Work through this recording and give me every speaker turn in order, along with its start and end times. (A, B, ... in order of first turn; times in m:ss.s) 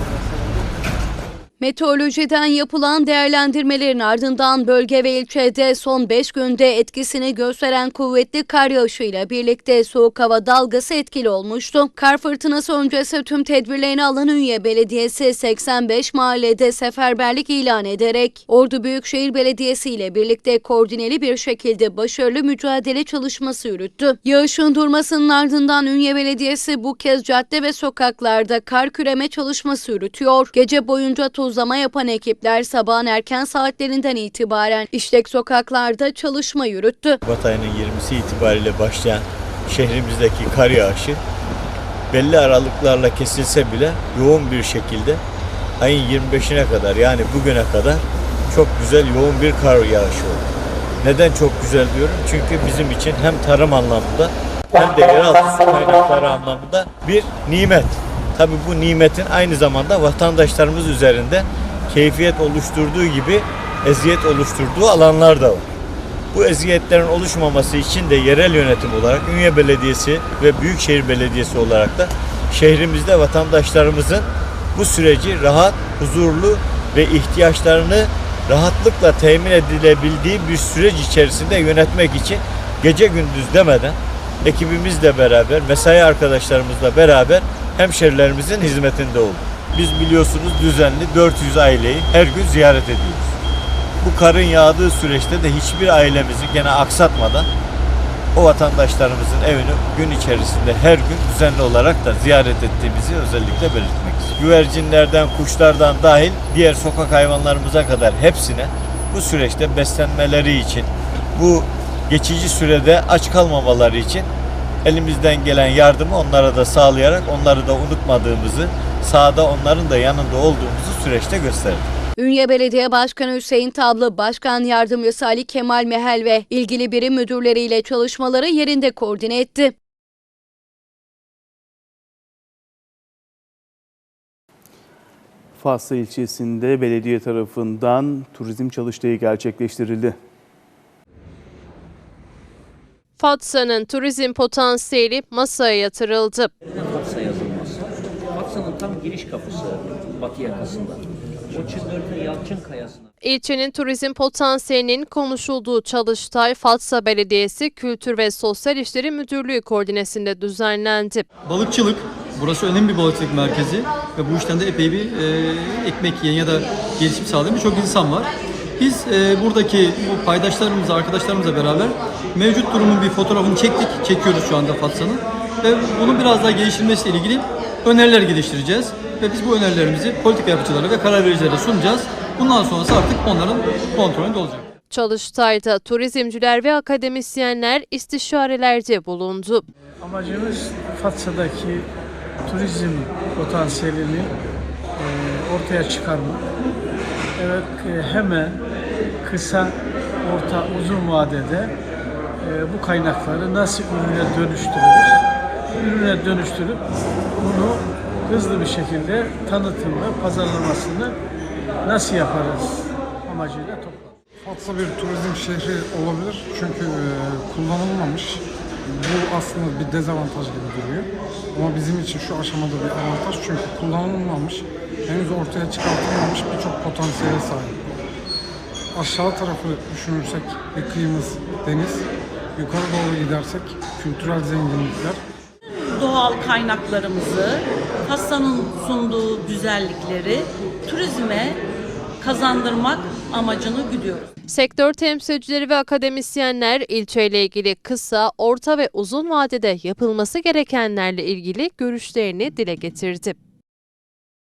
0:01.6-0:37.2 A
0:37.2-0:41.2 B
0:42.1-0:45.2 B
0:45.8-0:50.4 B
0:51.0-1:05.6 B
1:06.3-1:33.4 B
1:34.0-1:37.5 B
1:38.4-1:54.3 B
1:54.8-2:01.9 B
2:02.2-2:09.8 A
2:15.6-2:20.2 C
2:23.2-2:26.5 D
2:26.6-2:33.1 E
2:33.2-2:41.2 D
2:41.5-3:04.7 F
3:04.9-3:09.6 D
3:10.0-3:11.9 G
3:12.5-3:14.3 G
3:15.0-3:16.4 G
3:17.4-3:18.6 G
3:19.2-3:21.8 G
3:22.4-3:25.2 G
3:25.8-3:26.9 G
3:27.4-3:31.2 G
3:31.8-3:34.2 G
3:34.4-3:47.8 H
3:48.9-3:55.2 H
3:55.6-4:01.6 I
4:02.2-4:04.3 I
4:04.5-4:13.4 D